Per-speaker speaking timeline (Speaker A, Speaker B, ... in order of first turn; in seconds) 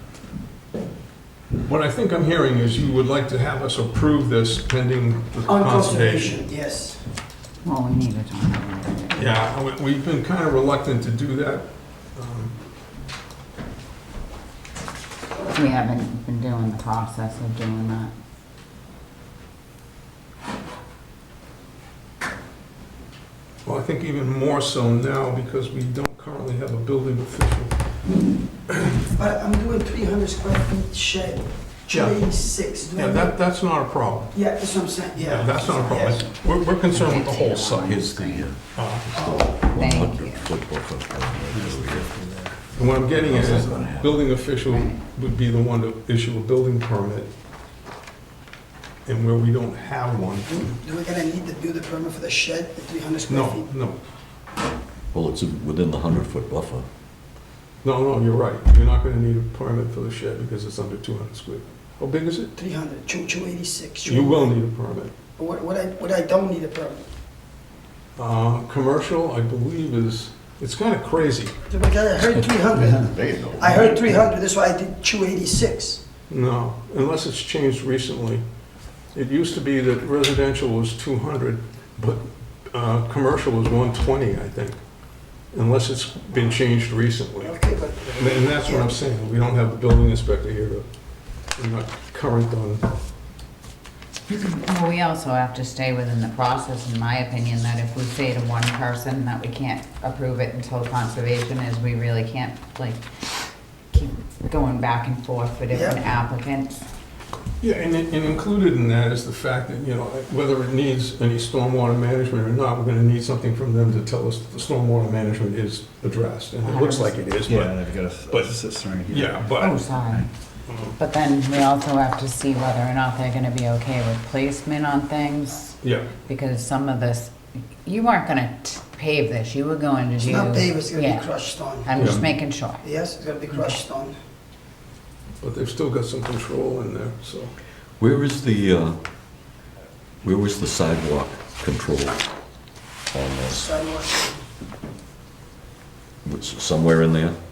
Speaker A: 1.6-6.4, 9.1-12.6, 23.6-27.8, 28.7-29.0, 33.0-34.4, 35.2-39.1, 42.7-47.3, 49.1-50.6, 53.3-54.0, 57.8-62.5, 64.0-65.1, 68.2-71.5, 76.3-78.4, 79.1-84.8, 85.5-90.9, 91.6-92.9, 107.6-118.5, 119.1-119.8, 120.7-120.9, 125.8-126.1, 135.4-137.6
Speaker B: 5.5-7.0, 29.0-33.3, 34.3-36.3, 39.1-39.5, 50.5-53.7, 62.5-64.5, 65.4-67.1, 71.7-76.0, 87.4-88.9, 105.7-106.0, 130.2-132.1, 132.8-134.2, 143.5-144.5
Speaker C: 7.6-9.4, 15.4-18.1, 36.9-38.5, 39.5-40.5, 44.7-45.0, 94.3-103.0, 103.9-106.9, 116.6-117.2, 119.6-120.3, 121.0-132.8
Speaker D: 38.1-42.1, 43.1-44.2, 55.1-56.9, 138.0-138.9, 140.2-142.2, 143.1-143.7, 146.2-147.4
Speaker E: 41.5-43.9, 117.5-119.4